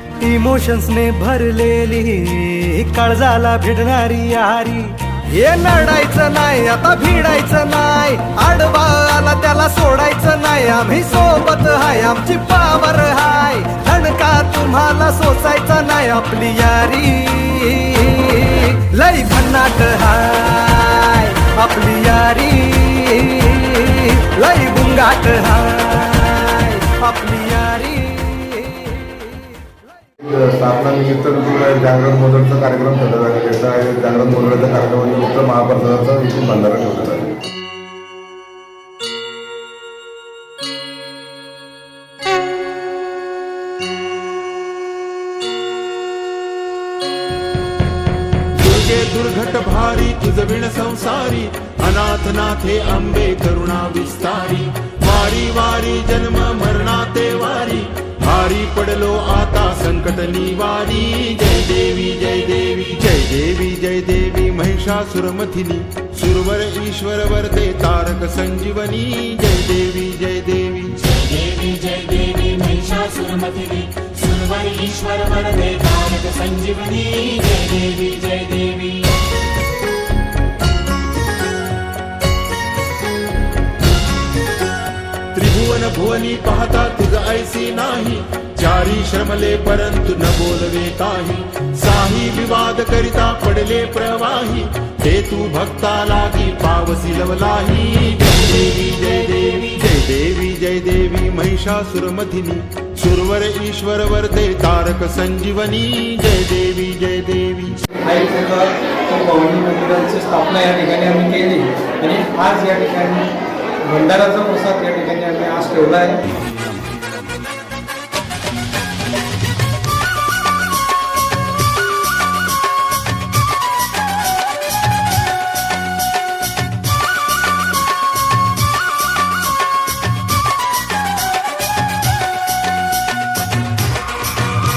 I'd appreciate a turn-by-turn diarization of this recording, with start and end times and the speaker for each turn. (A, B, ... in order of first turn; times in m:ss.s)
0:00.2-0:29.8 A
0:30.5-0:37.3 B
0:48.6-1:11.0 C
1:11.1-1:18.8 D
1:25.3-1:47.8 C
1:48.0-1:53.3 E
1:53.8-1:56.2 E